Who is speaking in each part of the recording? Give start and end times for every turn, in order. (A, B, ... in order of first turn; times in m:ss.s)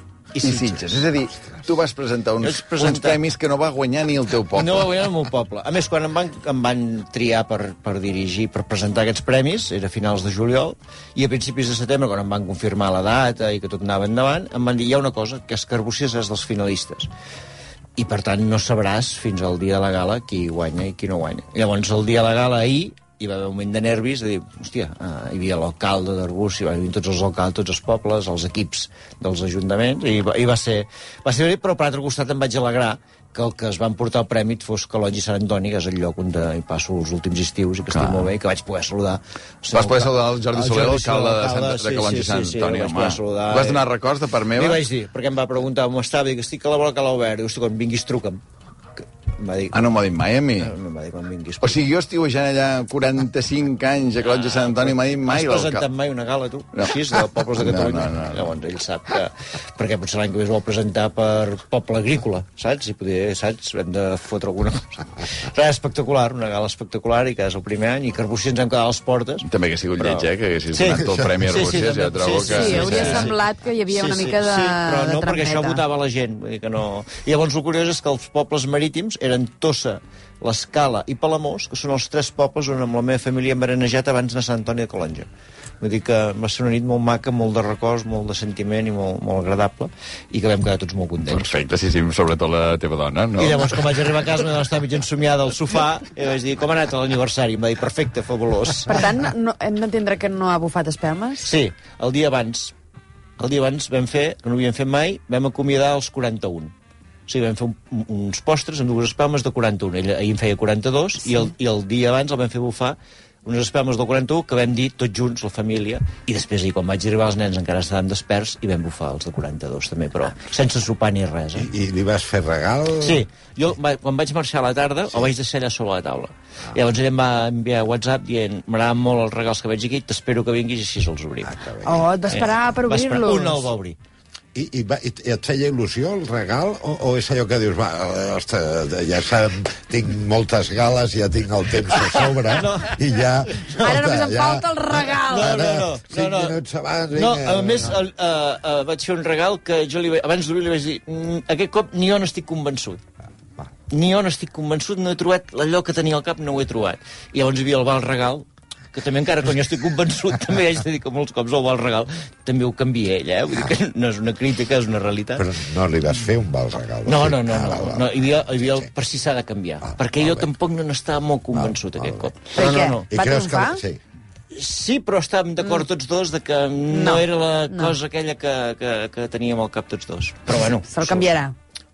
0:00.3-0:00.9 A
0:00.4-0:04.9 B
0:02.4-0:03.2 A
0:04.5-0:17.1 A
0:18.0-0:43.9 A
0:37.9-0:38.3 B
0:39.7-0:44.8 B
0:44.5-0:48.4 A
0:49.3-0:49.9 A
0:49.7-0:50.7 B
0:50.6-0:51.8 A
0:51.6-0:55.8 B
0:54.6-1:13.4 A
0:56.8-0:58.5 B
1:09.4-1:13.3 B
1:10.9-1:11.4 C
1:12.4-1:15.8 D
1:13.9-1:25.3 A
1:25.8-1:31.5 A
1:31.3-1:33.8 B
1:33.4-1:39.0 A
1:38.8-1:41.4 D
1:41.4-1:42.7 A
1:43.4-1:46.7 A
1:47.3-2:01.7 A
2:01.5-2:03.2 C
2:03.0-2:11.6 A
2:11.4-2:12.1 C
2:11.8-2:13.7 D
2:12.3-2:14.0 A
2:14.5-2:28.0 C
2:21.9-2:23.9 A
2:23.8-2:25.5 D
2:25.3-2:26.6 A
2:27.1-2:33.0 A
2:33.9-2:45.5 A
2:45.4-2:48.9 C
2:47.0-2:53.0 A
2:49.8-2:50.5 C
2:51.5-2:52.3 C
2:52.5-2:53.8 D
2:53.1-2:54.0 C
2:54.5-3:01.3 A
2:56.9-2:57.9 D
3:00.9-3:01.5 D